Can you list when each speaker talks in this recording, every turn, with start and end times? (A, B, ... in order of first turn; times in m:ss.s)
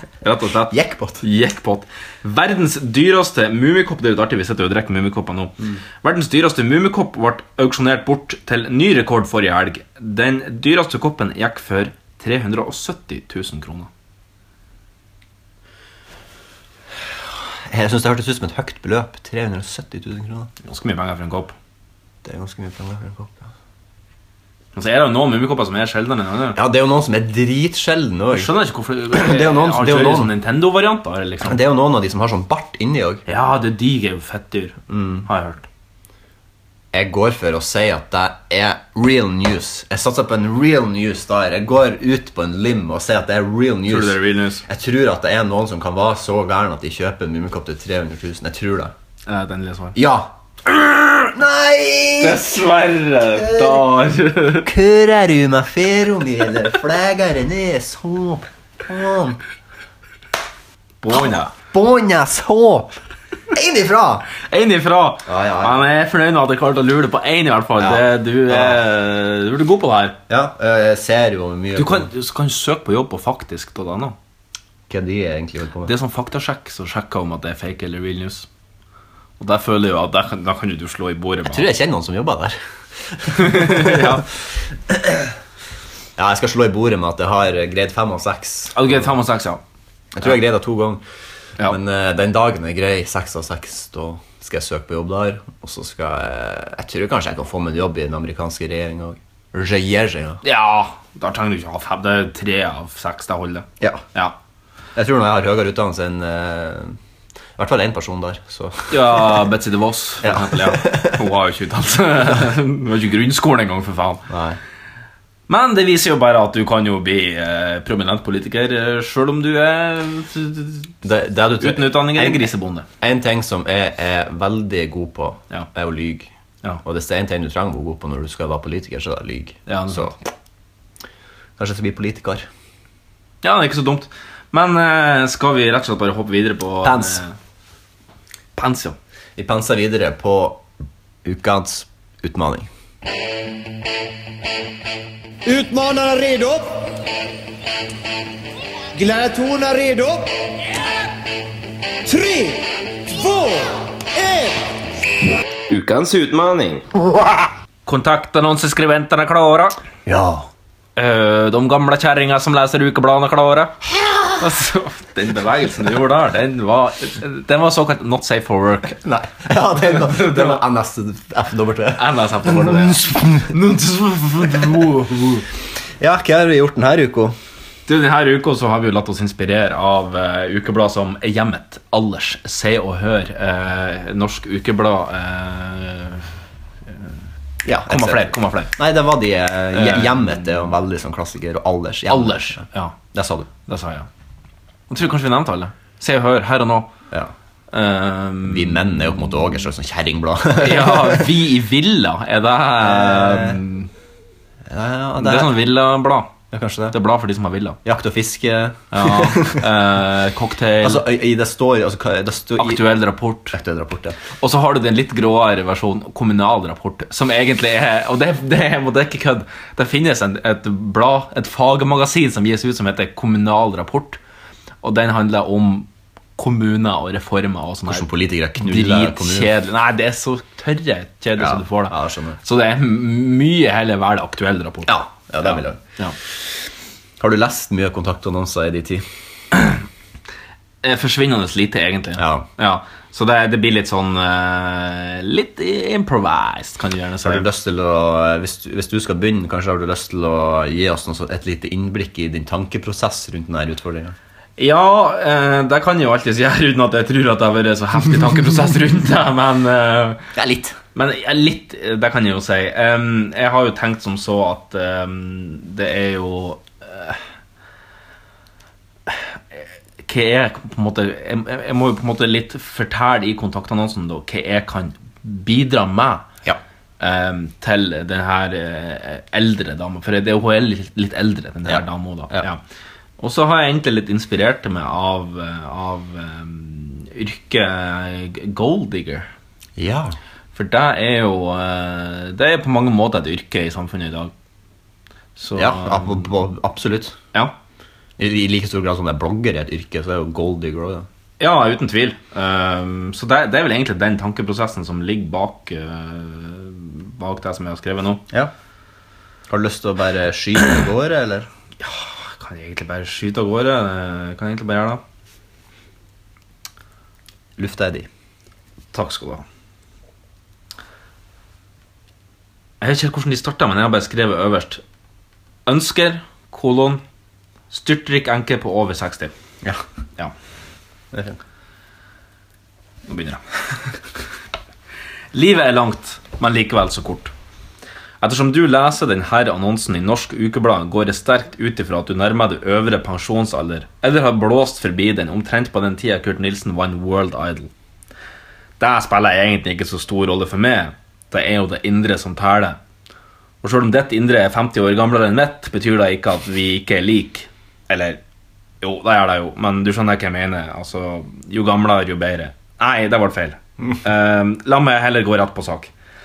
0:00.2-0:13.9 A
0:00.7-0:01.2 B
0:17.7-0:20.5 B
0:20.6-0:21.5 A
0:22.2-0:23.5 B
0:24.8-0:26.6 A
0:26.5-0:28.5 B
0:28.3-0:31.6 A
0:29.1-0:30.3 B
0:31.4-0:33.2 B
0:33.3-0:35.6 A
0:34.9-0:35.3 B
0:36.9-0:48.9 B
0:43.9-0:44.6 A
0:49.3-0:50.0 A
0:49.9-0:52.4 B
0:52.2-0:54.7 A
0:53.3-0:53.9 B
0:54.6-0:59.4 B
1:01.0-1:01.5 A
1:01.1-1:02.9 B
1:03.5-1:04.3 B
1:04.4-1:10.2 A
1:05.2-1:05.8 B
1:07.8-1:08.8 B
1:10.3-1:12.1 B
1:11.8-1:14.1 A
1:14.9-1:15.9 B
1:15.8-1:18.5 A
1:19.4-1:21.7 A
1:21.4-1:24.2 B
1:23.3-1:24.2 A
1:24.9-1:25.3 B
1:26.2-1:29.1 B
1:28.7-1:29.6 A
1:30.1-1:31.0 B
1:31.6-1:40.4 B
1:40.4-1:44.4 A
1:43.8-1:44.0 B
1:44.9-1:47.0 B
1:47.6-1:49.4 B
1:48.9-1:54.2 A
1:50.2-1:51.2 B
1:54.3-1:54.6 B
1:55.5-2:00.9 A
2:01.0-2:02.5 B
2:01.6-2:02.8 A
2:03.0-2:06.3 B
2:06.8-2:10.2 B
2:09.7-2:10.1 A
2:11.6-2:12.4 B
2:13.4-2:17.3 A
2:16.8-2:17.2 B
2:18.6-2:19.0 A
2:19.4-2:20.6 B
2:21.2-2:22.7 B
2:25.4-2:27.0 C
2:28.9-2:30.3 C
2:32.0-2:34.6 C
2:37.8-2:39.8 A
2:40.0-2:40.5 B
2:41.0-2:43.8 A
2:43.9-2:44.3 B
2:44.4-2:49.0 A
2:48.9-2:53.5 B
2:49.9-2:50.6 A
2:52.0-2:55.4 A
2:56.0-2:57.4 B
2:57.9-3:06.3 A
3:07.6-3:12.6 B
3:07.9-3:08.7 A
3:09.7-3:10.4 A
3:12.1-3:13.0 A
3:13.1-3:13.5 B
3:13.6-3:14.1 A
3:14.9-3:16.9 A
3:17.7-3:18.9 A
3:18.4-3:21.3 B
3:20.6-3:23.9 A
3:22.8-3:23.6 B
3:24.7-3:25.5 B
3:25.2-3:26.3 A
3:26.5-3:27.0 B
3:26.9-3:27.8 A
3:27.8-3:29.6 B
3:28.9-3:31.0 A
3:30.8-3:32.8 B
3:32.6-3:33.6 A
3:33.5-3:34.2 B
3:34.4-3:44.2 A
3:44.8-3:48.1 A
3:47.9-3:49.5 B
3:48.6-3:56.2 A
3:51.4-3:52.4 B
3:54.8-3:55.8 B
3:57.2-3:59.0 B
4:00.8-4:07.4 A
4:02.2-4:02.4 B
4:07.2-4:14.2 B
4:14.6-4:20.2 A
4:20.3-4:20.8 B
4:20.9-4:27.2 A
4:29.1-4:36.3 A
4:37.0-4:42.6 A
4:41.6-4:42.5 B
4:43.2-4:49.3 A
4:49.8-4:50.2 B
4:50.5-4:54.3 A
4:55.4-4:56.3 A
4:55.5-4:57.2 B
4:58.2-5:01.1 B
5:01.4-5:08.2 A
5:09.5-5:11.5 B
5:11.8-5:15.0 A
5:17.6-5:18.1 B
5:18.9-5:19.4 A
5:22.8-5:24.8 A
5:25.6-5:27.0 A
5:27.7-5:29.3 A
5:31.1-5:31.4 B
5:33.1-5:34.0 A
5:35.3-5:37.3 A
5:38.2-5:47.7 A
5:48.8-5:52.8 A
5:53.6-5:58.2 A
5:58.8-6:05.9 A